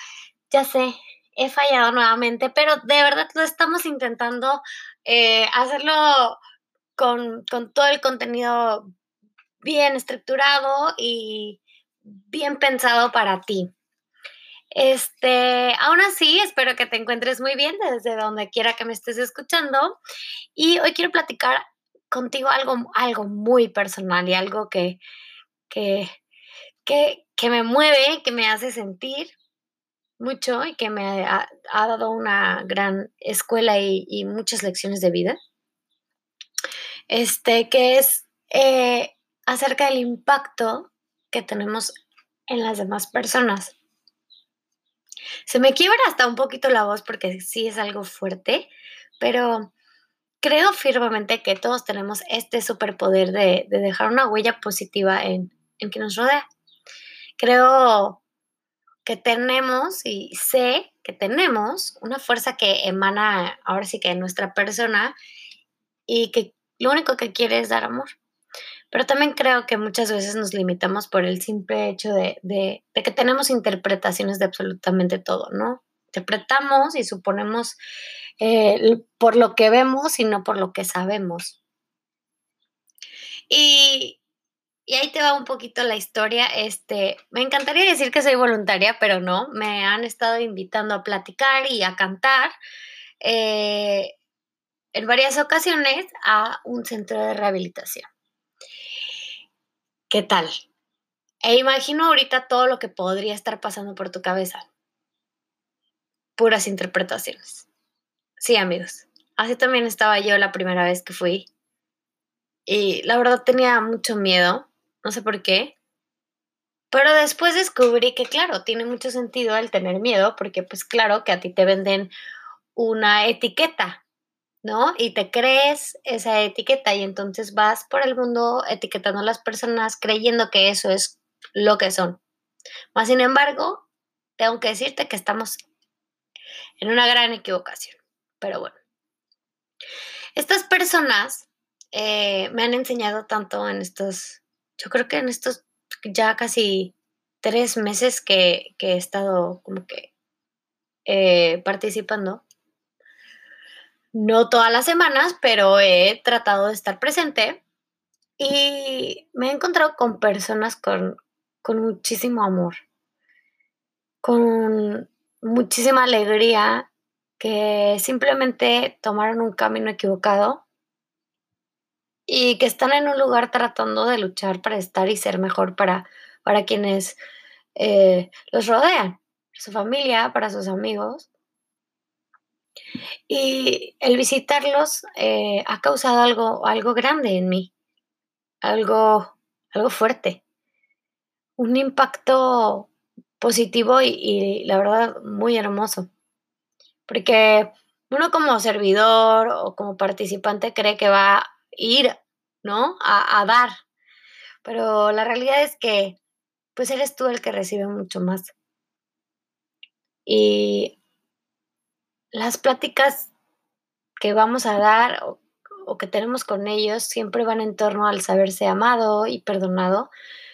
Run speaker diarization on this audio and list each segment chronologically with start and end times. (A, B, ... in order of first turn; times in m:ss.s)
0:00.5-0:06.4 A
0:07.0-0:08.9 A
0:09.6-0:13.7 A
0:14.7-0:20.0 A
0:20.6-0:25.0 A
0:25.7-0:26.1 A
0:26.8-0:29.3 A
0:30.2-0:35.4 A
0:37.1-0:41.9 A
0:42.5-0:43.8 A
0:45.5-0:49.7 A
0:50.4-0:56.4 A
0:57.4-0:58.2 A
0:59.0-1:05.2 A
1:06.1-1:08.2 A
1:08.9-1:17.8 A
1:18.4-1:21.6 A
1:23.5-1:24.2 A
1:24.9-1:32.5 A
1:33.2-1:34.2 A
1:34.9-1:38.1 A
1:40.1-1:40.5 A
1:41.4-1:44.7 A
1:46.4-1:47.7 A
1:48.4-1:51.5 A
1:52.7-1:55.8 A
1:56.9-2:02.1 A
2:02.8-2:04.0 A
2:04.6-2:12.2 A
2:13.0-2:13.9 A
2:14.4-2:15.6 A
2:16.8-2:18.8 A
2:20.4-2:30.1 A
2:31.1-2:32.4 A
2:34.1-2:37.6 A
2:38.4-2:42.8 A
2:44.2-2:50.6 A
2:52.3-2:57.2 A
2:57.8-3:01.3 A
3:03.3-3:07.7 A
3:08.6-3:10.4 A
3:11.6-3:16.1 A
3:17.1-3:23.7 A
3:24.6-3:26.2 A
3:26.8-3:28.5 A
3:30.2-3:31.0 A
3:32.3-3:33.3 A
3:34.2-3:40.1 A